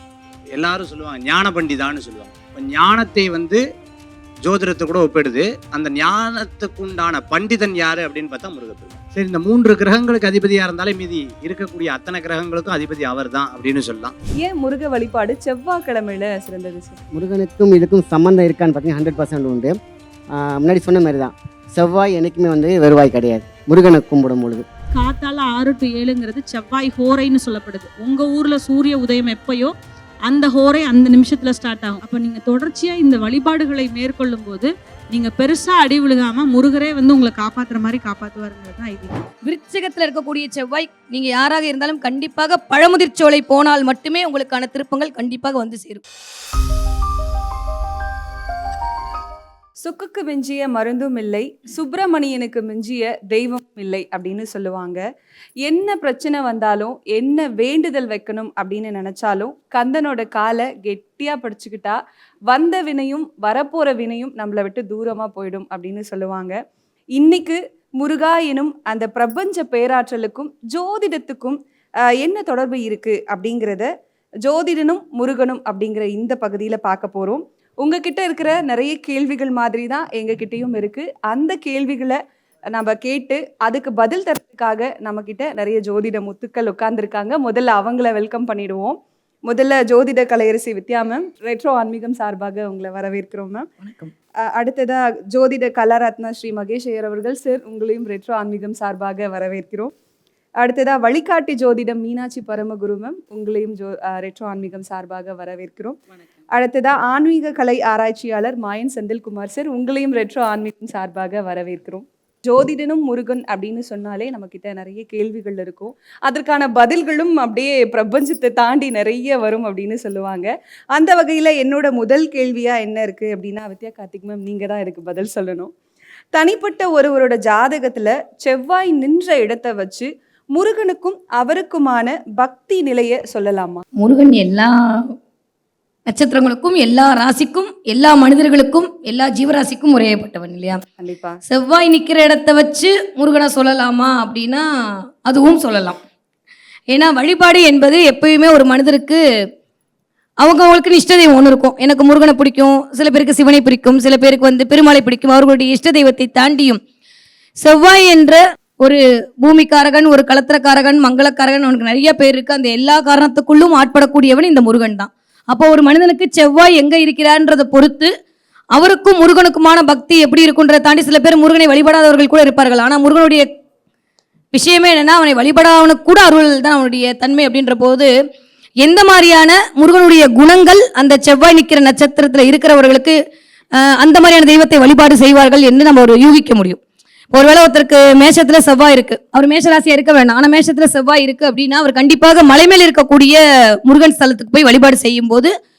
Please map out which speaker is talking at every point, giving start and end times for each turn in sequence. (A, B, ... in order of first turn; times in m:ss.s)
0:00.5-0:03.6 A
0:04.4-0:14.1 A
0:14.4-0:17.0 B
0:17.1-0:19.7 C
0:20.4-0:24.6 C
0:24.9-0:29.7 D
0:30.2-0:39.2 D
0:39.4-0:46.0 E
0:49.8-0:55.0 B
0:55.6-1:06.6 B
1:07.1-1:13.9 B
1:14.4-1:22.2 B
1:22.7-1:33.7 B
1:34.4-1:39.9 B
1:40.6-1:46.0 B
1:46.5-2:05.7 B
2:06.3-2:13.8 B
2:14.0-2:14.7 E
2:16.1-2:20.8 E
2:21.0-2:21.4 B
2:21.5-2:24.6 E
2:25.2-2:26.0 E
2:26.9-2:29.2 E
2:30.4-2:36.8 E
2:37.6-2:48.1 E
2:48.7-2:53.5 E
2:54.5-2:58.1 E
2:58.8-3:03.1 E
3:04.0-3:06.8 E
3:07.3-3:15.5 E